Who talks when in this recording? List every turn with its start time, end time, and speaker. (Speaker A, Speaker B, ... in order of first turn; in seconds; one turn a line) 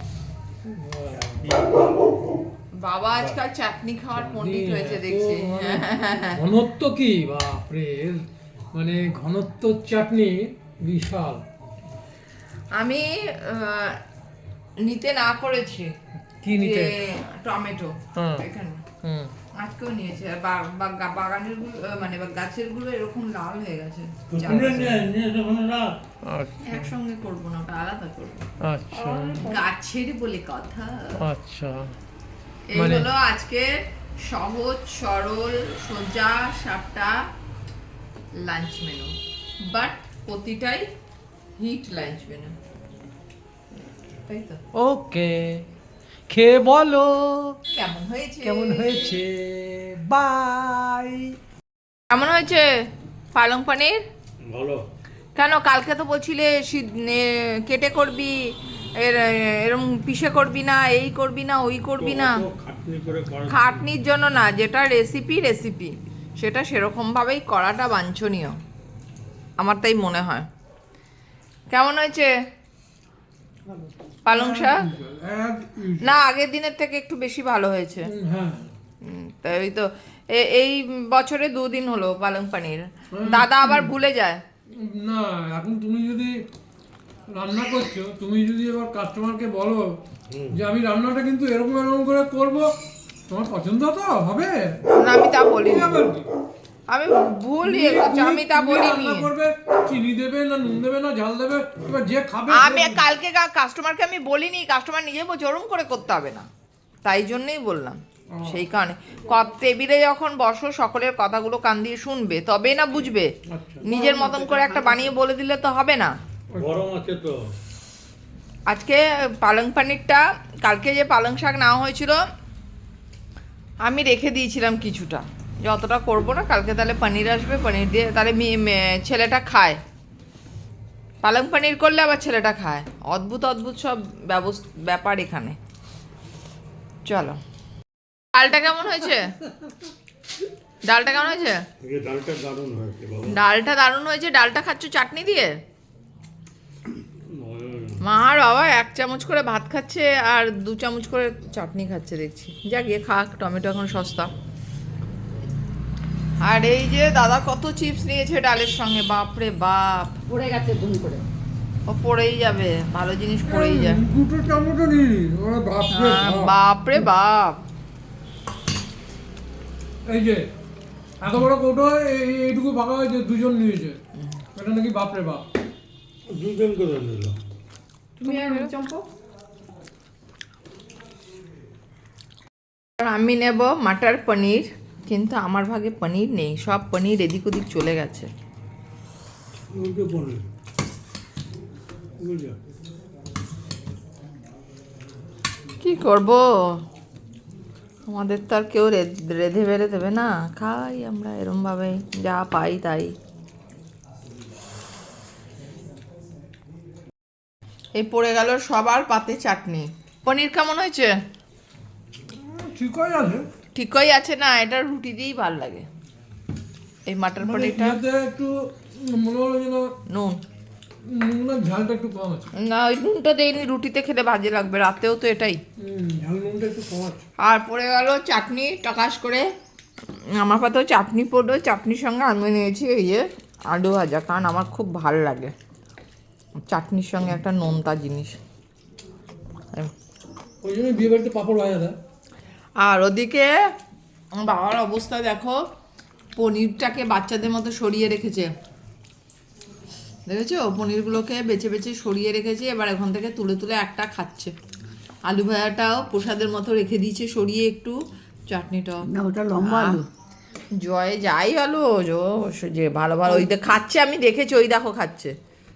Speaker A: 0.6-1.4
Speaker B: 1.1-2.1
Speaker C: 2.8-6.4
Speaker A: 4.1-8.2
Speaker A: 8.7-11.4
Speaker C: 12.7-14.0
Speaker C: 14.8-15.9
Speaker A: 16.4-16.9
Speaker C: 16.5-18.8
Speaker A: 18.1-18.4
Speaker A: 19.0-19.3
Speaker C: 19.6-25.0
Speaker B: 24.3-26.0
Speaker A: 26.3-26.9
Speaker C: 26.6-31.1
Speaker A: 28.6-29.6
Speaker A: 31.2-31.9
Speaker C: 32.7-33.7
Speaker A: 32.7-33.1
Speaker C: 34.2-37.2
Speaker C: 38.4-40.9
Speaker C: 41.6-42.5
Speaker C: 44.3-44.6
Speaker A: 44.7-45.6
Speaker A: 46.3-47.6
Speaker C: 47.7-49.1
Speaker A: 48.4-51.4
Speaker C: 52.1-52.6
Speaker C: 53.3-54.0
Speaker B: 54.4-54.8
Speaker C: 55.4-62.4
Speaker B: 62.0-63.8
Speaker C: 63.5-68.6
Speaker C: 69.6-70.5
Speaker C: 71.7-72.3
Speaker C: 74.2-74.8
Speaker A: 74.3-76.1
Speaker C: 76.0-78.1
Speaker A: 78.0-78.7
Speaker C: 79.0-84.4
Speaker A: 83.1-83.9
Speaker A: 84.7-86.4
Speaker A: 87.3-90.0
Speaker B: 90.3-90.5
Speaker A: 90.5-92.7
Speaker A: 93.3-94.8
Speaker C: 94.9-96.0
Speaker A: 95.6-96.3
Speaker C: 96.9-99.3
Speaker A: 97.6-103.0
Speaker C: 102.5-106.5
Speaker C: 107.0-113.3
Speaker A: 108.3-108.6
Speaker A: 113.5-113.9
Speaker C: 113.8-116.1
Speaker D: 113.8-115.1
Speaker A: 116.5-116.8
Speaker B: 116.6-117.3
Speaker C: 118.7-122.2
Speaker C: 123.8-129.8
Speaker C: 131.2-135.6
Speaker C: 137.1-137.4
Speaker C: 138.3-139.3
Speaker C: 140.8-141.6
Speaker B: 141.8-143.3
Speaker C: 143.3-145.6
Speaker B: 147.3-148.0
Speaker C: 148.0-154.3
Speaker C: 156.4-160.1
Speaker D: 160.3-161.2
Speaker C: 161.9-164.0
Speaker A: 163.5-167.1
Speaker C: 165.9-167.6
Speaker A: 170.1-170.5
Speaker A: 171.2-174.0
Speaker A: 174.5-175.4
Speaker B: 176.3-177.4
Speaker D: 178.2-179.0
Speaker C: 178.2-178.7
Speaker C: 183.0-188.3
Speaker B: 189.7-190.4
Speaker B: 192.2-192.6
Speaker C: 195.8-196.8
Speaker C: 198.1-203.1
Speaker C: 207.9-211.1
Speaker A: 212.4-213.5
Speaker C: 213.7-215.8
Speaker C: 217.1-218.0
Speaker A: 217.4-219.9
Speaker C: 220.1-220.4
Speaker A: 221.0-222.4
Speaker C: 222.6-225.6
Speaker A: 225.8-226.7
Speaker B: 226.2-227.2
Speaker C: 227.4-229.5
Speaker C: 230.4-235.5
Speaker C: 236.7-238.4
Speaker A: 240.6-241.9
Speaker C: 242.8-243.5
Speaker C: 244.4-245.6
Speaker C: 246.3-248.5
Speaker C: 250.2-254.5
Speaker C: 255.2-257.9
Speaker C: 258.5-260.0
Speaker D: 259.1-260.1
Speaker C: 260.8-265.3
Speaker D: 263.2-263.5